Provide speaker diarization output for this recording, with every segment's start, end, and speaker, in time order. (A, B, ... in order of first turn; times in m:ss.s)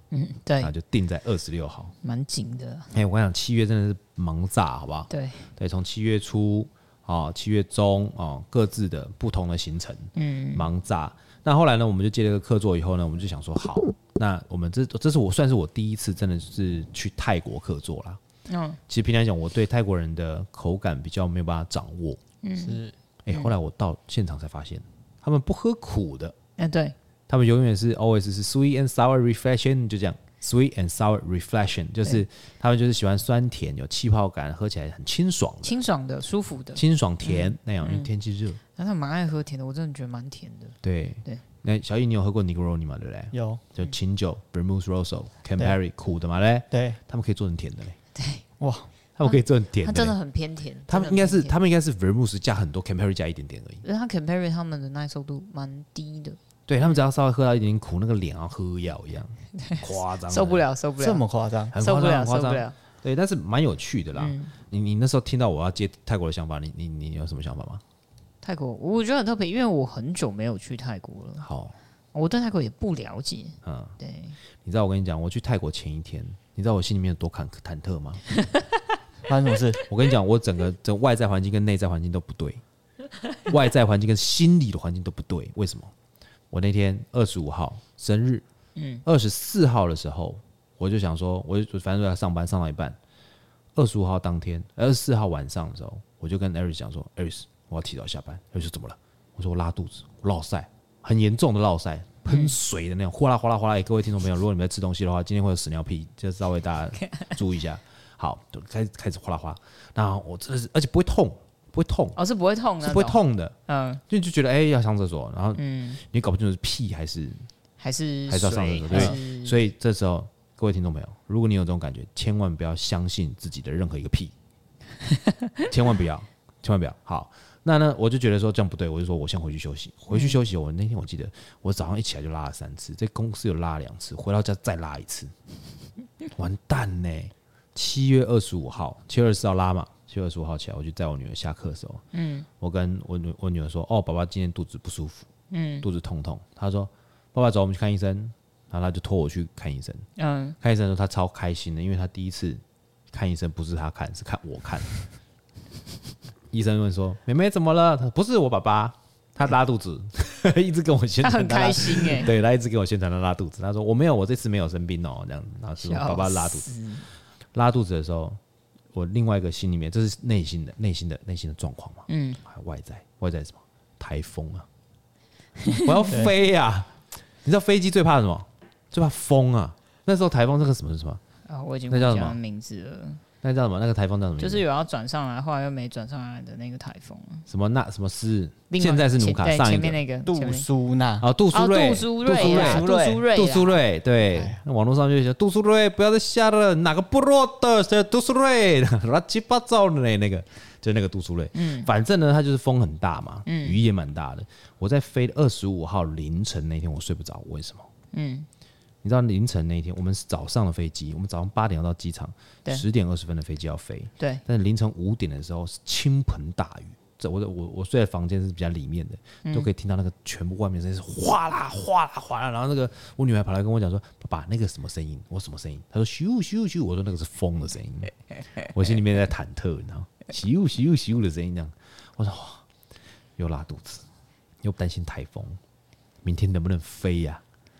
0:00.1-0:00.7 A
0:00.6-0:01.9 B
0:02.0-0:02.9 A
0:02.9-0:18.2 B
0:05.1-0:05.4 A
0:10.1-0:10.7 A
0:18.5-0:18.8 A
0:18.9-0:22.2 B
0:22.4-0:22.8 A
0:22.6-0:22.9 C
0:23.2-0:26.3 B
0:26.6-0:26.9 A
0:27.3-0:35.8 B
0:35.6-0:38.1 A
0:36.7-0:38.6 B
0:38.7-0:41.4 A
0:40.8-0:48.0 B
0:43.3-0:43.6 C
0:46.7-0:47.0 C
0:48.1-0:48.4 A
0:48.6-0:48.9 C
0:49.2-0:50.2 B
0:49.2-0:51.6 A
0:50.9-0:53.8 B
0:53.8-0:57.0 A
0:56.7-1:00.6 B
0:59.6-1:01.2 A
1:01.0-1:01.7 C
1:01.7-1:07.8 B
1:01.8-1:02.7 A
1:04.2-1:04.5 A
1:08.4-1:11.4 A
1:11.4-1:11.7 B
1:12.1-1:14.4 A
1:13.6-1:13.9 B
1:14.6-1:18.2 B
1:18.3-1:18.8 A
1:19.3-1:19.8 C
1:19.9-1:22.6 B
1:23.4-1:25.9 B
1:26.5-1:28.4 B
1:28.8-1:29.0 A
1:29.0-1:33.0 B
1:33.8-1:52.2 B
1:47.0-1:47.4 A
1:52.2-1:54.0 A
1:52.8-1:53.5 B
1:54.1-1:57.5 B
1:55.5-1:56.0 A
1:57.8-1:59.6 A
1:58.3-2:04.3 B
2:05.7-2:15.3 B
2:10.1-2:10.4 A
2:16.3-2:22.0 B
2:22.1-2:22.5 A
2:22.6-2:25.3 B
2:25.5-2:25.8 A
2:25.8-2:30.0 B
2:30.2-2:30.6 A
2:30.6-2:34.9 B
2:36.5-2:46.7 B
2:41.2-2:42.3 A
2:45.8-2:47.1 A
2:47.5-2:48.4 B
2:48.9-2:54.6 B
2:52.1-2:52.4 A
2:55.6-2:56.0 A
2:55.7-2:56.9 B
2:57.4-3:01.2 B
3:01.5-3:03.2 A
3:01.9-3:02.4 B
3:03.4-3:04.6 B
3:04.4-3:07.4 A
3:07.5-3:10.0 B
3:08.7-3:10.6 A
3:10.3-3:11.3 C
3:11.2-3:27.9 B
3:11.5-3:13.8 A
3:12.2-3:13.2 C
3:14.3-3:14.6 C
3:21.5-3:21.9 A
3:23.4-3:23.8 A
3:28.1-3:28.5 A
3:29.0-3:48.1 B
3:48.7-3:52.6 B
3:53.4-3:54.0 B
3:54.6-3:55.6 B
3:56.2-3:57.4 B